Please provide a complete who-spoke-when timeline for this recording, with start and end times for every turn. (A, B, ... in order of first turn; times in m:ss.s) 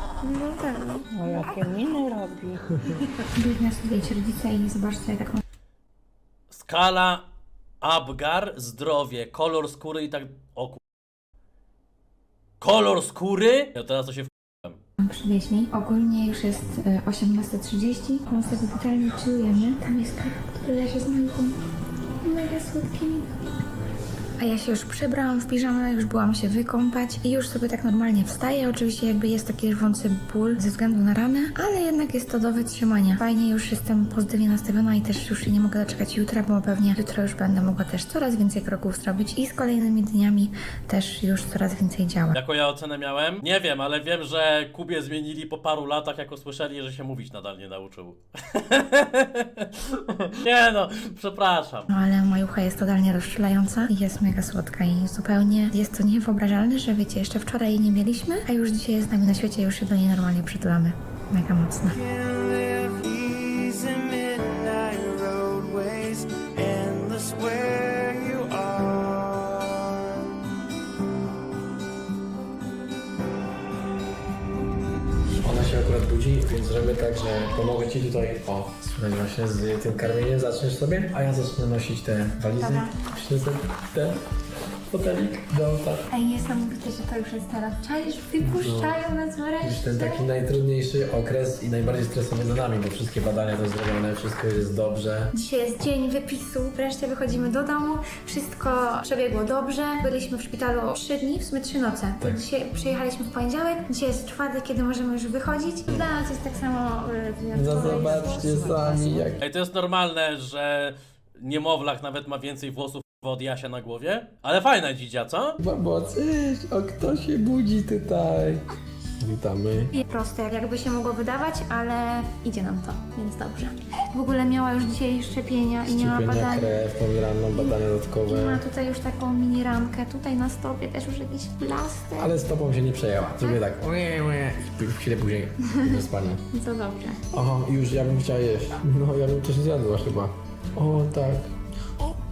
0:00.2-0:01.1 A
0:01.1-0:03.1 B
0:03.3-0:05.4 A
0:06.5-0:07.2 C
0:07.8-0:10.8 C
0:12.6-0:14.8 C
0:15.0-0:21.6 A
0:22.2-0:23.4 A
0:24.4-0:42.4 A
0:42.3-0:51.9 C
0:51.9-1:02.0 A
1:01.9-1:10.2 B
1:15.4-1:24.2 D
1:22.6-1:23.0 A
1:24.9-1:26.1 D
1:26.1-1:30.3 A
1:28.4-1:29.0 D
1:29.6-1:35.3 D
1:35.3-1:49.4 A
1:47.5-1:49.4 D
1:49.4-1:55.6 C
1:55.6-1:59.9 D
1:59.9-2:06.7 A
2:05.8-2:08.6 D
2:08.3-2:12.3 A
2:12.2-2:16.4 D
2:16.5-2:17.2 A
2:17.3-2:21.5 D